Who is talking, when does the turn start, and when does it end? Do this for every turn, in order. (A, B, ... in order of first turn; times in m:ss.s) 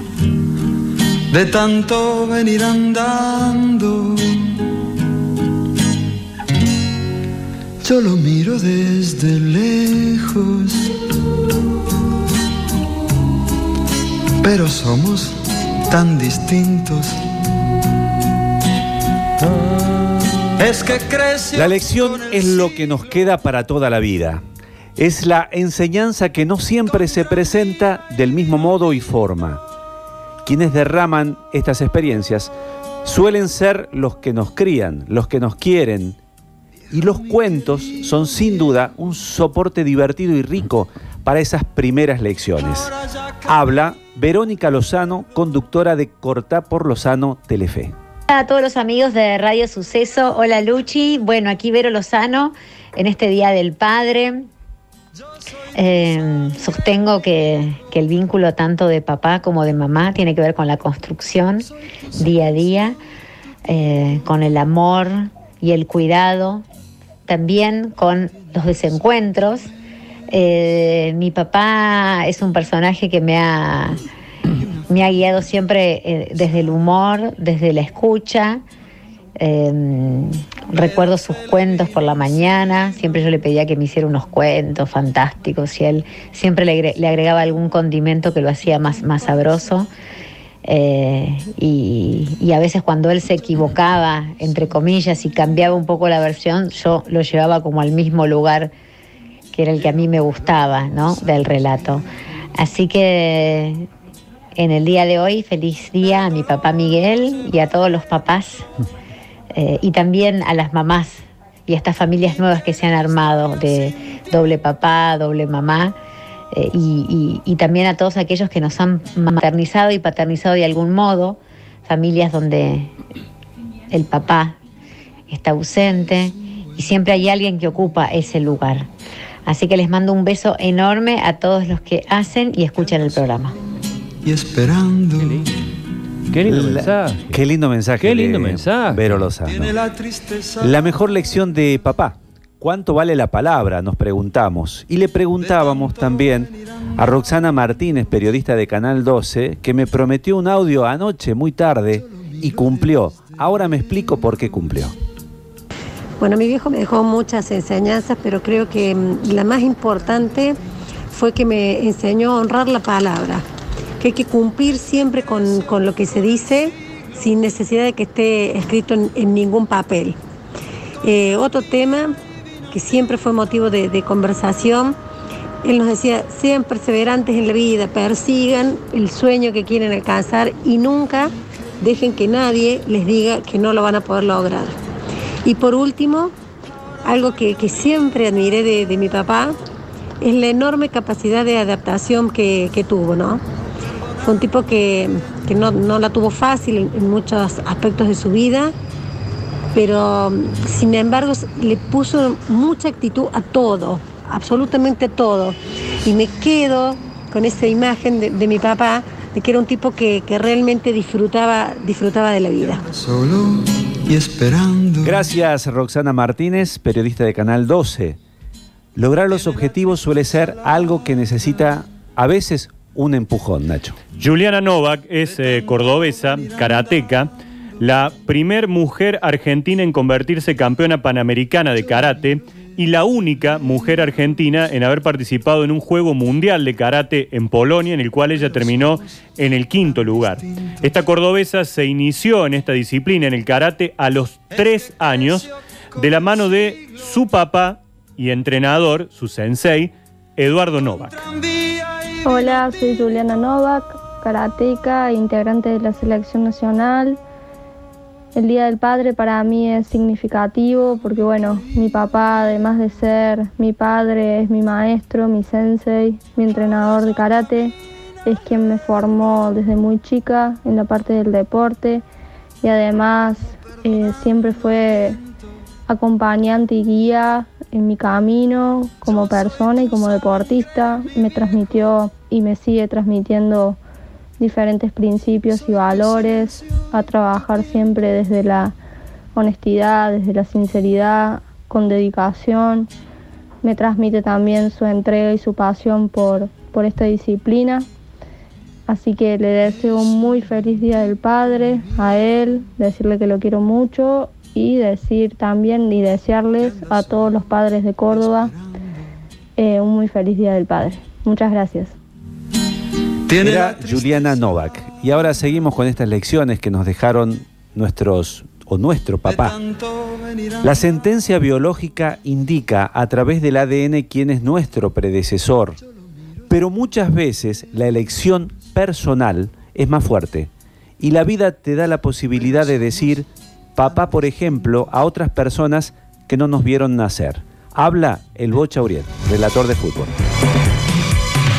0:01.3-0:04.5 A
0:07.8-0:10.9 A
0:14.4-0:17.2 A
0:20.6-0:21.6 A
0:21.5-0:24.4 B
0:25.0-0:29.6 B
0:30.4-0:32.5 B
0:33.0-0:36.2 B
0:36.9-0:42.9 B
0:43.4-0:47.9 B
0:48.3-0:54.5 C
0:55.8-1:03.0 C
1:03.7-1:06.6 C
1:07.3-1:09.7 C
1:10.3-1:14.0 C
1:14.7-1:18.6 C
1:19.4-1:29.9 C
1:30.6-1:38.7 C
1:39.5-1:42.0 C
1:42.6-1:43.9 C
1:44.6-1:48.6 C
1:49.5-1:55.9 C
1:56.5-2:02.9 C
2:03.9-2:04.6 C
2:05.3-2:08.9 C
2:09.4-2:13.6 C
2:14.2-2:15.1 A
2:15.2-2:15.5 D
2:16.3-2:17.4 D
2:16.5-2:19.8 B
2:18.0-2:19.2 D
2:20.6-2:34.9 B
2:36.2-2:40.6 E
2:41.1-2:43.4 E
2:44.0-2:50.2 E
2:51.0-2:52.1 E
2:52.7-2:55.0 E
2:55.6-3:04.8 E
3:05.4-3:06.3 E
3:07.0-3:09.6 E
3:10.2-3:13.4 E
3:14.2-3:18.7 E
3:19.7-3:32.8 E
3:33.0-3:35.0 A
3:35.0-3:38.2 B
3:39.0-3:44.0 B
3:44.2-4:11.3 F
4:12.2-4:17.2 G
4:18.3-4:27.7 G
4:28.2-4:32.0 G
4:32.6-4:35.2 G
4:35.9-4:43.8 G
4:44.4-4:48.7 G
4:49.4-4:52.9 G
4:53.6-4:57.8 G
4:58.9-5:08.5 G
5:09.6-5:11.9 G
5:13.4-5:19.6 B
5:20.6-5:25.8 B
5:26.5-5:40.1 B